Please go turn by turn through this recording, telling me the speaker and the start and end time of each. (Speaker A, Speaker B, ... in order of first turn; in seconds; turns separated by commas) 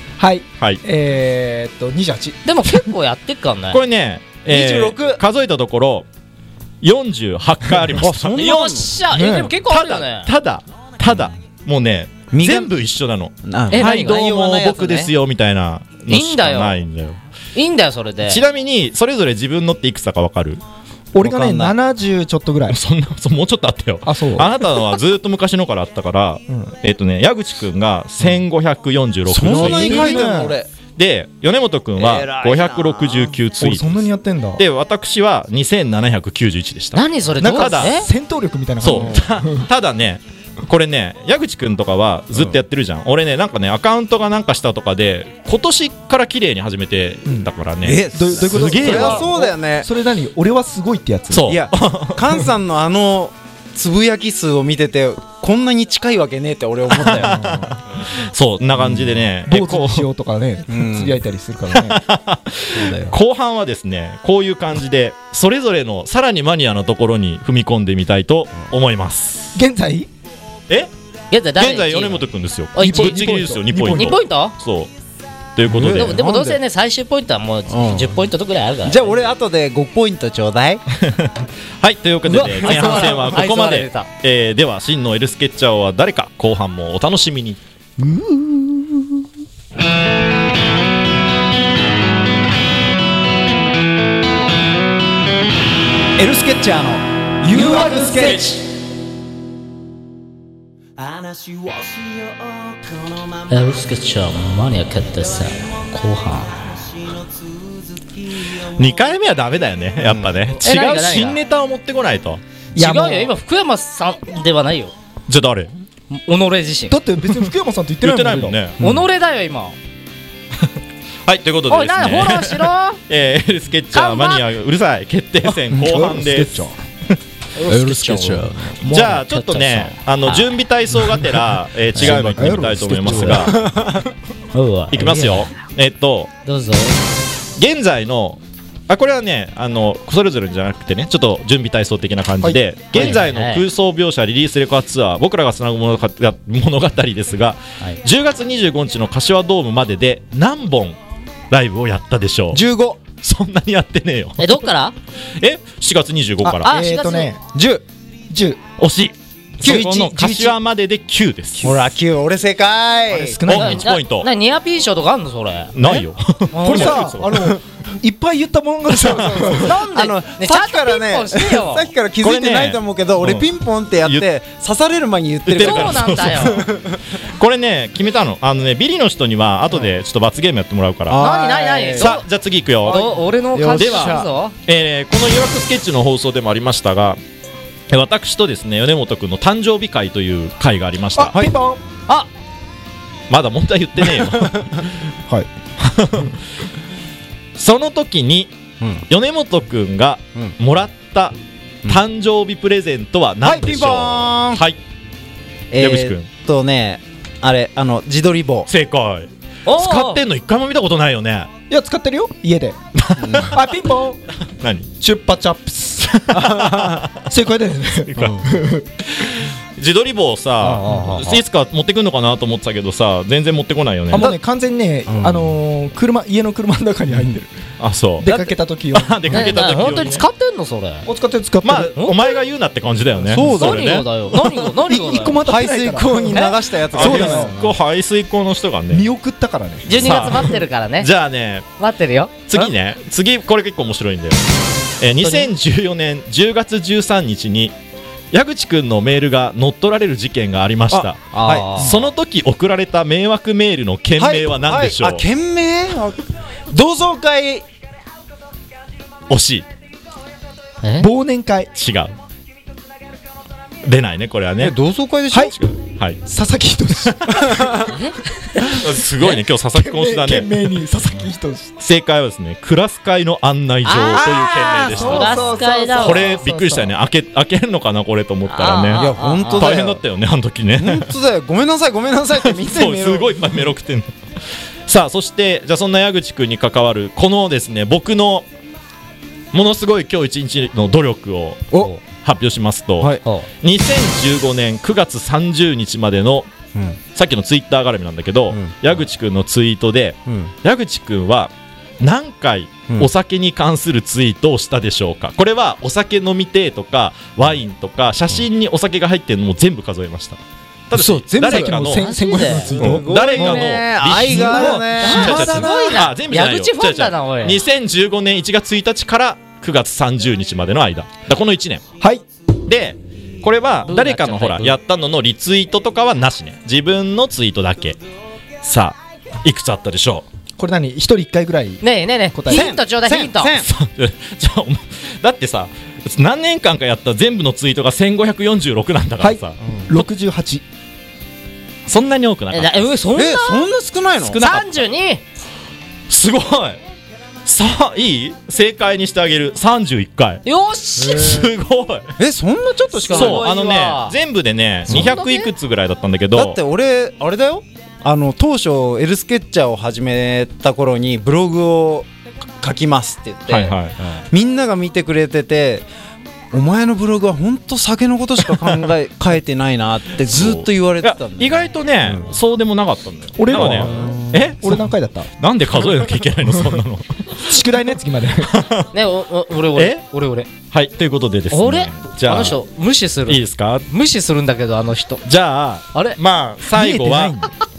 Speaker A: 0.2-2.4, Speaker B: 2.4-3.8, Speaker C: 3.7-6.1, Speaker D: 4.5-5.2, Speaker C: 6.8-8.6, Speaker D: 8.0-8.9, Speaker B: 8.3-10.3, Speaker A: 9.1-9.5, Speaker C: 9.7-17.2, Speaker D: 12.3-12.7, Speaker D: 13.4-15.1, Speaker B: 13.7-14.7, Speaker B: 16.1-16.8, Speaker B: 17.5-18.4, Speaker C: 18.3-20.6, Speaker A: 21.1-22.8, Speaker D: 21.2-21.7, Speaker C: 22.7-30.3, Speaker A: 24.1-24.6, Speaker A: 26.5-26.7, Speaker D: 29.3-30.7, Speaker A: 29.4-30.6, Speaker C: 30.9-34.1, Speaker D: 32.0-33.4, Speaker A: 33.6-34.6, Speaker C: 34.6-38.0, Speaker B: 36.9-38.1, Speaker A: 37.4-39.7, Speaker C: 38.8-49.3, Speaker D: 38.9-39.2, Speaker D: 47.8-49.9, Speaker A: 48.1-51.6, Speaker C: 51.3-52.5, Speaker D: 51.5-57.6, Speaker C: 56.9-60.1, Speaker A: 57.1-57.7, Speaker D: 58.8-59.2, Speaker A: 59.5-62.0, Speaker D: 60.7-61.2, Speaker C: 61.7-69.5, Speaker D: 62.7-63.1, Speaker A: 69.5-70.1, Speaker B: 71.3-73.3, Speaker C: 71.6-74.9, Speaker A: 72.8-74.2, Speaker B: 73.8-74.5, Speaker C: 75.5-76.2, Speaker D: 75.7-76.6, Speaker B: 75.9-79.2, Speaker D: 77.7-78.1, Speaker D: 78.8-80.8, Speaker C: 80.9-87.6, Speaker B: 82.2-84.1, Speaker D: 82.7-83.1, Speaker A: 88.1-88.8, Speaker D: 96.2-98.5, Speaker A: 97.4-98.5, Speaker D: 101.0-103.8, Speaker B: 103.5-106.7, Speaker D: 106.6-108.9, Speaker C: 108.6-112.4, Speaker D: 110.0-110.4, Speaker B: 110.6-111.4, Speaker A: 112.8-113.3, Speaker B: 112.8-114.9, Speaker C: 115.3-115.7, Speaker B: 116.1-117.0, Speaker A: 116.9-118.6, Speaker C: 118.0-118.8, Speaker B: 118.8-119.8, Speaker D: 118.8-119.1, Speaker C: 121.2-126.7, Speaker B: 121.7-123.0, Speaker B: 123.9-124.4, Speaker A: 125.7-126.7, Speaker D: 125.7-126.0, Speaker B: 127.5-130.5, Speaker D: 127.6-128.8, Speaker C: 128.8-133.6, Speaker A: 131.9-133.6, Speaker D: 132.0-132.6, Speaker D: 133.1-134.0, Speaker B: 134.5-135.5, Speaker C: 134.9-136.3, Speaker B: 136.4-137.0, Speaker C: 137.6-151.0, Speaker B: 142.9-143.6, Speaker C: 151.5-152.6, Speaker D: 152.5-153.0, Speaker C: 153.1-154.6, Speaker B: 154.4-154.9, Speaker C: 155.4-156.7, Speaker A: 156.4-157.4, Speaker B: 156.6-157.3, Speaker D: 157.5-157.8, Speaker A: 158.3-158.6, Speaker C: 158.8-161.9, Speaker D: 159.6-160.5, Speaker D: 161.6-163.4, Speaker A: 163.1-163.9, Speaker C: 163.5-164.3, Speaker B: 163.5-165.7, Speaker C: 165.7-167.5, Speaker B: 166.5-167.0, Speaker A: 166.6-169.8, Speaker D: 169.0-177.0, Speaker B: 169.6-171.9, Speaker C: 172.2-173.5, Speaker C: 175.5-176.7, Speaker B: 175.6-176.6, Speaker C: 177.2-181.2, Speaker D: 181.1-182.2, Speaker B: 181.1-182.2, Speaker C: 182.0-183.1, Speaker B: 182.8-184.5, Speaker D: 182.8-184.3, Speaker C: 183.8-187.2, Speaker C: 187.9-191.4, Speaker A: 191.1-191.8, Speaker C: 193.3-195.0, Speaker D: 194.1-194.5, Speaker C: 195.8-196.4, Speaker C: 197.6-198.5, Speaker C: 199.1-204.8, Speaker D: 203.4-204.6, Speaker D: 205.7-208.7, Speaker C: 205.8-206.3, Speaker C: 208.7-211.5, Speaker B: 209.7-210.2, Speaker A: 211.7-212.8, Speaker C: 212.9-213.6, Speaker D: 213.2-213.5, Speaker A: 213.5-214.2, Speaker C: 214.5-214.9, Speaker A: 215.0-216.1, Speaker C: 216.0-217.3, Speaker D: 216.3-217.1, Speaker A: 217.2-218.9, Speaker C: 218.1-218.5, Speaker D: 218.2-218.5, Speaker C: 219.1-224.3, Speaker B: 220.6-221.4, Speaker A: 224.1-227.5, Speaker D: 225.1-225.5, Speaker C: 227.8-230.2, Speaker A: 228.2-229.6, Speaker B: 229.3-231.1, Speaker A: 231.1-232.0, Speaker C: 231.6-234.1, Speaker D: 233.2-234.0, Speaker B: 233.5-235.4, Speaker A: 234.6-237.6, Speaker D: 235.1-237.7, Speaker B: 236.3-236.6, Speaker C: 236.9-239.1, Speaker A: 238.9-240.4, Speaker B: 239.8-241.1, Speaker C: 239.9-241.7, Speaker B: 241.8-242.7, Speaker C: 242.5-244.5, Speaker C: 245.0-247.7, Speaker B: 245.2-245.5, Speaker C: 248.3-255.2, Speaker D: 250.9-252.1, Speaker B: 251.3-251.9, Speaker D: 254.2-257.6, Speaker C: 259.3-259.6, Speaker B: 260.8-261.1, Speaker A: 261.0-261.7, Speaker C: 261.7-262.1, Speaker C: 263.8-264.8, Speaker D: 264.6-265.6, Speaker C: 265.5-266.2, Speaker A: 266.2-267.7, Speaker C: 267.0-267.6, Speaker B: 267.8-268.6, Speaker C: 268.6-270.6, Speaker A: 269.7-271.8, Speaker C: 271.8-281.1, Speaker B: 273.8-276.5, Speaker A: 274.1-276.9, Speaker D: 274.9-275.4, Speaker B: 278.5-279.7, Speaker D: 278.9-280.0, Speaker D: 280.8-283.5, Speaker C: 282.4-284.1, Speaker C: 284.9-288.4, Speaker C: 289.5-296.5, Speaker C: 297.1-310.4, Speaker D: 298.5-298.8, Speaker C: 310.9-312.1, Speaker D: 310.9-311.8, Speaker A: 311.4-313.1, Speaker B: 311.9-312.7, Speaker D: 312.5-315.6, Speaker C: 312.7-321.8, Speaker B: 313.3-313.8, Speaker A: 314.1-316.0, Speaker B: 315.0-317.6, Speaker C: 322.6-328.0, Speaker B: 323.9-324.7, Speaker C: 328.6-330.2, Speaker A: 330.6-332.7, Speaker B: 331.8-333.6, Speaker D: 332.5-333.7, Speaker C: 333.6-339.6, Speaker A: 339.2-340.6, Speaker C: 341.9-342.8, Speaker B: 342.5-343.7, Speaker D: 343.1-344.5, Speaker B: 344.3-345.2, Speaker C: 344.3-344.8, Speaker C: 346.1-346.8, Speaker C: 347.4-350.4, Speaker B: 350.4-351.4, Speaker C: 351.0-352.1, Speaker D: 351.1-351.4, Speaker D: 352.2-353.4, Speaker B: 352.9-354.2, Speaker C: 353.1-356.6, Speaker D: 354.9-355.1, Speaker B: 354.9-355.5, Speaker D: 356.3-362.1, Speaker D: 362.6-363.8, Speaker C: 363.5-364.0, Speaker D: 364.3-365.9, Speaker D: 366.5-372.3, Speaker C: 368.6-368.9, Speaker C: 370.2-374.9, Speaker A: 373.4-375.3, Speaker D: 373.5-374.3, Speaker C: 375.4-377.6, Speaker A: 377.4-378.5, Speaker C: 378.4-378.9, Speaker B: 378.9-380.5, Speaker C: 379.8-380.0, Speaker C: 380.7-382.6, Speaker B: 381.5-385.2, Speaker C: 383.3-383.9, Speaker C: 385.2-387.4, Speaker A: 386.7-387.5